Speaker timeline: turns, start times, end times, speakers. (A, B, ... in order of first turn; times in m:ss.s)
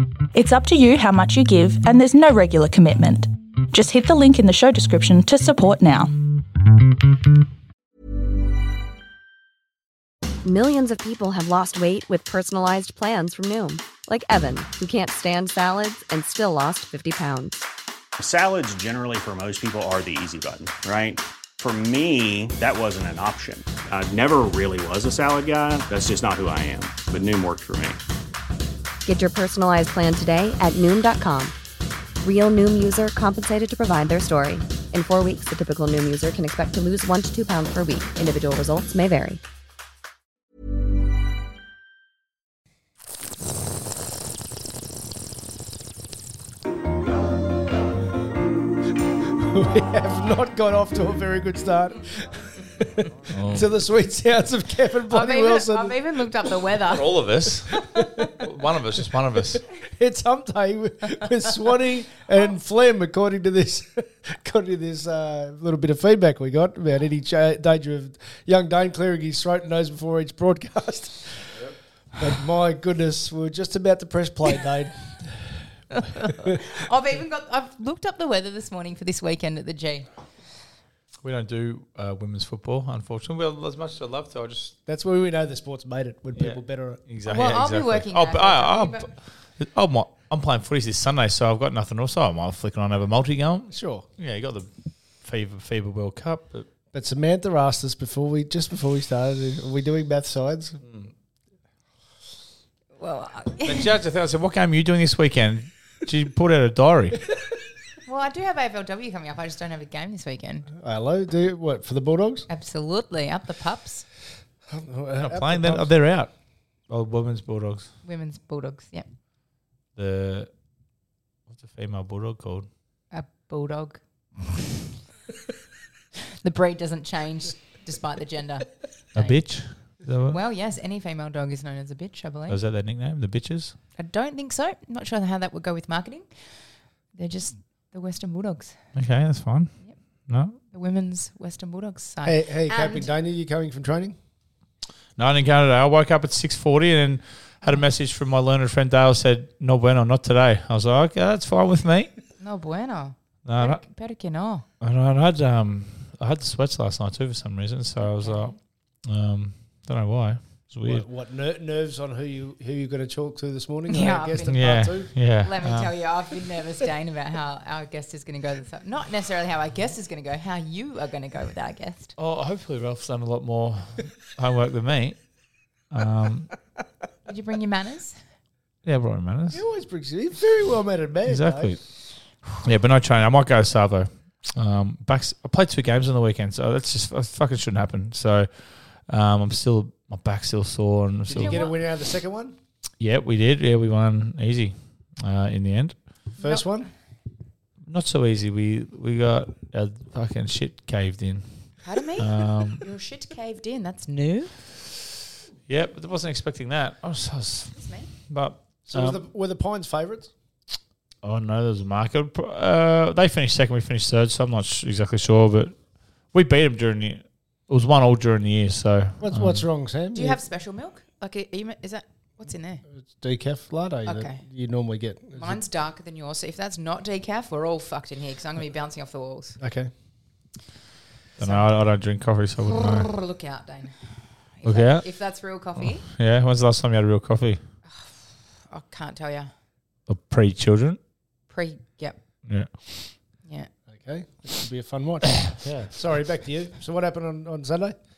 0:00.3-0:06.1 A
0:10.4-0:17.6 B
0:18.2-0:28.0 C
0:29.0-0:31.5 B
0:32.2-0:39.4 B
0:49.2-0:56.1 D
0:53.3-0:53.7 E
0:55.1-0:57.2 F
0:56.8-0:59.6 E
0:57.7-0:58.5 D
0:59.8-1:11.6 D
1:12.2-1:15.6 D
1:15.9-1:20.1 F
1:21.2-1:24.8 E
1:24.8-1:27.0 D
1:26.3-1:34.7 E
1:27.2-1:29.1 F
1:33.7-1:34.0 D
1:35.2-1:36.7 E
1:36.9-1:40.8 D
1:40.8-1:41.1 E
1:43.0-1:43.9 F
1:43.6-1:47.2 E
1:48.0-1:50.7 F
1:50.7-1:52.4 D
1:52.5-1:54.0 F
1:54.7-1:55.9 D
1:55.2-1:56.3 E
1:56.9-1:57.9 E
1:58.0-1:59.1 F
2:00.0-2:00.5 E
2:01.5-2:02.7 E
2:03.1-2:04.0 F
2:06.4-2:09.4 F
2:09.1-2:10.4 E
2:10.3-2:12.6 F
2:12.5-2:13.7 E
2:14.0-2:16.3 F
2:17.1-2:18.8 F
2:18.9-2:19.7 E
2:20.3-2:20.6 E
2:20.7-2:23.1 F
2:22.2-2:24.2 D
2:25.2-2:32.1 E
2:32.4-2:34.6 F
2:33.4-2:33.8 E
2:34.8-2:41.0 E
2:38.0-2:38.5 F
2:40.8-2:45.1 D
2:43.9-2:44.8 F
2:44.5-2:45.9 E
2:45.4-2:52.1 F
2:52.2-2:55.2 E
2:55.9-2:56.5 E
2:57.2-2:58.2 F
2:58.8-2:59.6 E
2:59.5-3:01.8 D
3:01.2-3:01.8 E
3:02.6-3:08.5 E
3:09.1-3:11.6 E
3:11.3-3:12.6 D
3:11.4-3:11.7 F
3:13.0-3:15.9 E
3:16.4-3:16.6 F
3:16.4-3:16.9 D
3:17.8-3:22.8 E
3:21.8-3:24.5 F
3:25.7-3:29.2 E
3:27.8-3:28.1 F
3:28.9-3:30.3 D
3:31.2-3:35.7 E
3:36.3-3:39.6 E
3:39.2-3:40.4 D
3:40.1-3:42.8 F
3:43.0-3:45.6 D
3:44.0-3:44.4 F
3:45.4-3:49.6 F
3:49.6-3:49.9 D
3:51.4-3:53.1 E
3:52.6-3:54.0 F
3:54.6-3:56.0 F
3:54.6-3:55.0 E
3:55.8-3:57.6 E
3:57.9-3:59.5 F
4:00.1-4:01.0 E
4:01.5-4:02.2 F
4:02.5-4:03.0 E
4:03.9-4:08.0 D
4:05.6-4:05.9 E